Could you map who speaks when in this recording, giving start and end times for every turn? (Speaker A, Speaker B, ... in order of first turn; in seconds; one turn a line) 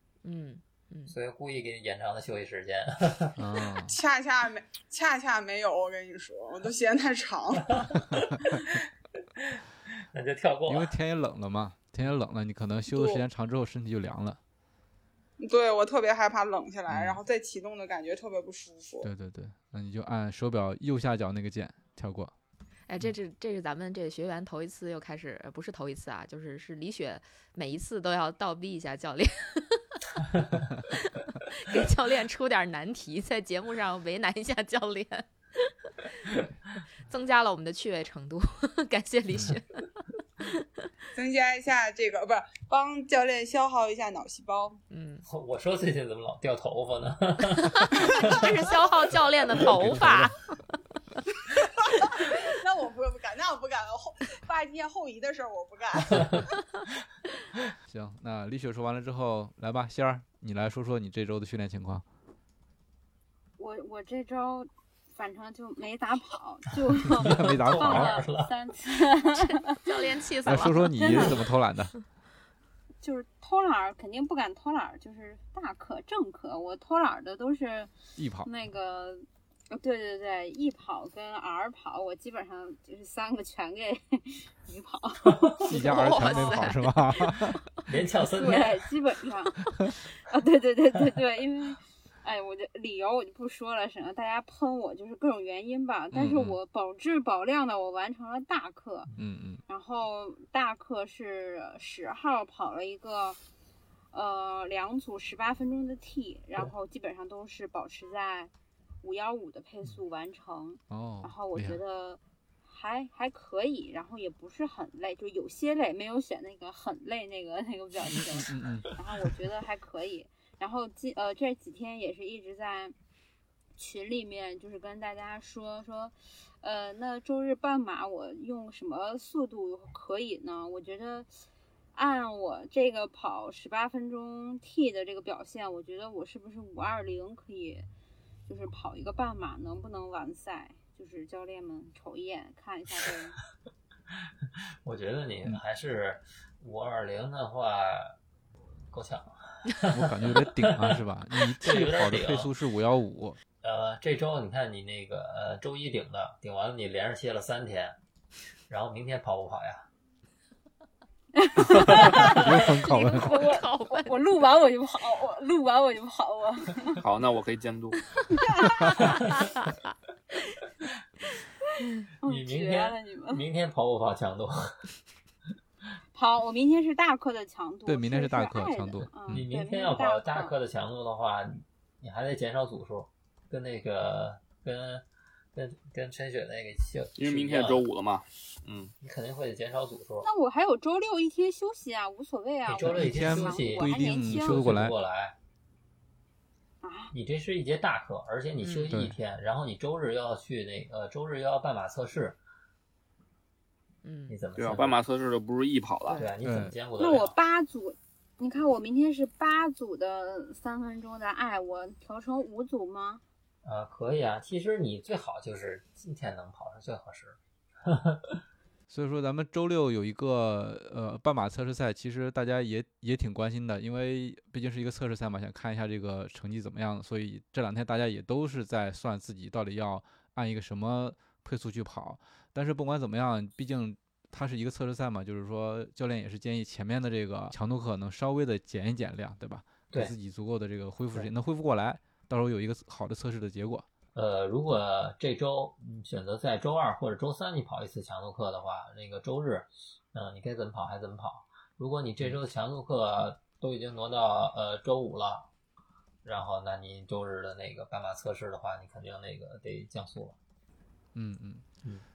Speaker A: 0.2-1.1
Speaker B: 1.1-3.4
Speaker C: 3.4-4.0
Speaker D: 3.8-8.0
Speaker B: 7.8-8.4
Speaker B: 10.1-10.9
Speaker C: 10.7-14.4
Speaker D: 12.9-13.2
Speaker D: 15.4-19.1
Speaker C: 16.9-17.2
Speaker C: 19.0-22.3
Speaker A: 22.9-29.8
Speaker A: 31.1-36.1
Speaker A: 37.1-39.9
Speaker D: 41.1-44.8
Speaker A: 44.9-45.2
Speaker B: 45.2-48.5
Speaker A: 47.6-50.5
Speaker C: 49.9-50.2
Speaker D: 51.5-56.5
Speaker C: 57.9-62.0
Speaker E: 63.6-70.0
Speaker C: 67.2-68.2
Speaker B: 67.2-68.5
Speaker A: 69.4-71.3
Speaker C: 70.5-71.9
Speaker E: 70.9-71.4
Speaker E: 73.0-77.9
Speaker C: 78.2-78.5
Speaker E: 78.4-86.5
Speaker A: 85.6-87.4
Speaker C: 85.6-87.6
Speaker B: 87.9-88.8
Speaker E: 88.3-99.1
Speaker C: 96.1-96.6
Speaker C: 99.2-99.6
Speaker E: 99.7-103.4
Speaker E: 104.1-108.5
Speaker E: 109.0-122.9
Speaker C: 110.9-111.8
Speaker C: 118.1-118.9
Speaker E: 123.8-131.3
Speaker E: 131.9-137.9
Speaker E: 138.5-143.4
Speaker B: 144.8-148.1
Speaker B: 148.9-151.0
Speaker C: 149.9-153.4
Speaker B: 151.6-152.5
Speaker B: 153.6-158.0
Speaker B: 158.7-159.9
Speaker E: 161.3-167.0
Speaker C: 161.8-163.3
Speaker A: 162.8-164.2
Speaker F: 167.0-168.0
Speaker E: 168.3-168.9
Speaker A: 169.3-169.8
Speaker E: 172.2-173.4
Speaker B: 172.2-174.8
Speaker E: 176.1-180.5
Speaker C: 177.8-179.5
Speaker B: 179.3-187.9
Speaker F: 187.2-188.9
Speaker B: 189.0-190.3
Speaker E: 190.2-194.8
Speaker B: 192.7-195.3
Speaker C: 192.8-194.9
Speaker E: 196.8-197.1
Speaker B: 197.1-202.4
Speaker A: 198.6-199.0
Speaker A: 204.0-204.4
Speaker B: 204.3-205.0
Speaker F: 204.6-206.2
Speaker B: 206.1-207.4
Speaker C: 206.4-206.8
Speaker E: 207.0-213.2
Speaker B: 213.6-218.4
Speaker C: 218.9-243.8
Speaker B: 244.1-255.5
Speaker B: 256.2-260.4
Speaker C: 261.1-261.6